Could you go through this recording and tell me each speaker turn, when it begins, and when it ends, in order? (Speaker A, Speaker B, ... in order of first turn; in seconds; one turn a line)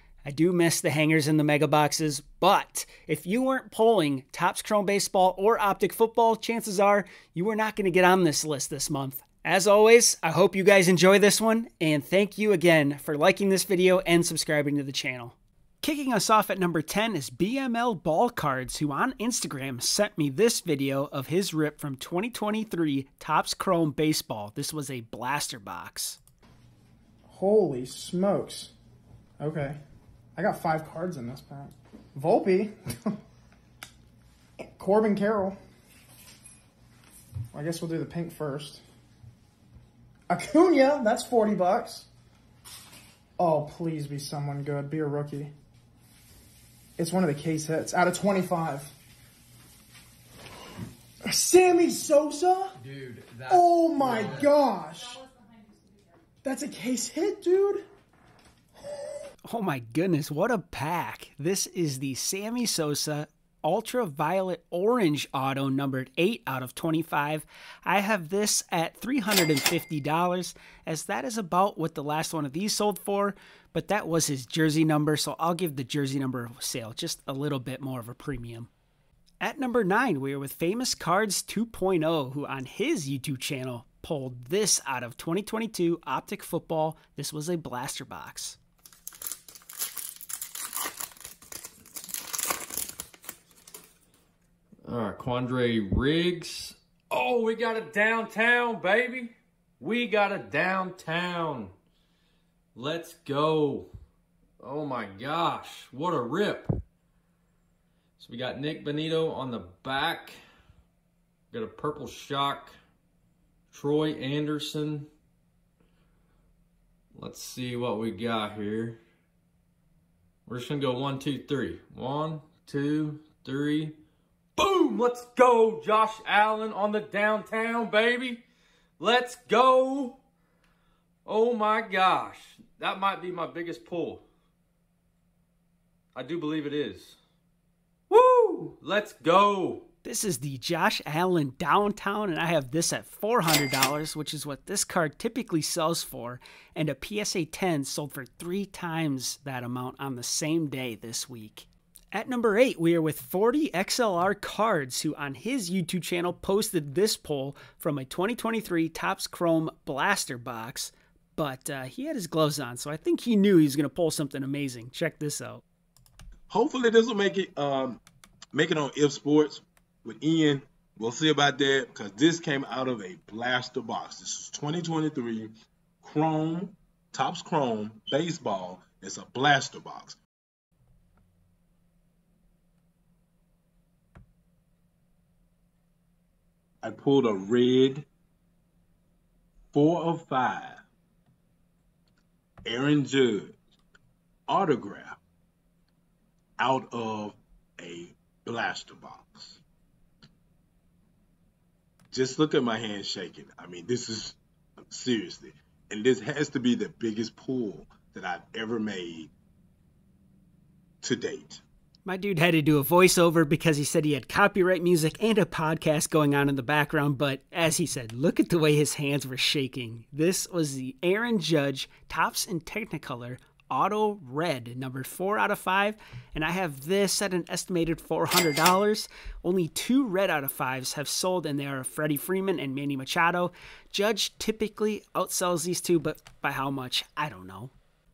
Speaker A: 0.2-26.2
Speaker B: 27.3-28.7
Speaker B: 29.4-29.8
Speaker B: 30.4-32.7
Speaker B: 34.6-35.6
Speaker B: 37.5-38.8
Speaker B: 40.3-42.1
Speaker B: 43.4-45.5
Speaker B: 47.0-48.9
Speaker B: 51.3-52.8
Speaker C: 53.1-53.5
Speaker B: 53.5-55.2
Speaker B: 56.4-57.9
Speaker A: 59.5-78.7
Speaker A: 79.4-88.6
Speaker C: 94.8-101.7
Speaker C: 102.8-103.9
Speaker C: 104.6-106.8
Speaker C: 108.2-110.4
Speaker C: 111.5-112.8
Speaker C: 113.7-115.1
Speaker C: 117.2-119.0
Speaker C: 120.5-124.0
Speaker C: 124.6-128.4
Speaker C: 129.0-130.2
Speaker C: 131.3-134.2
Speaker C: 136.2-137.2
Speaker C: 138.1-139.8
Speaker A: 140.0-165.6
Speaker D: 166.5-168.0
Speaker D: 168.5-180.2
Speaker D: 186.8-188.1
Speaker D: 189.7-190.8
Speaker D: 192.7-193.6
Speaker D: 194.5-195.2
Speaker D: 196.6-199.6
Speaker D: 202.1-209.3
Speaker D: 211.0-211.6
Speaker A: 212.1-237.7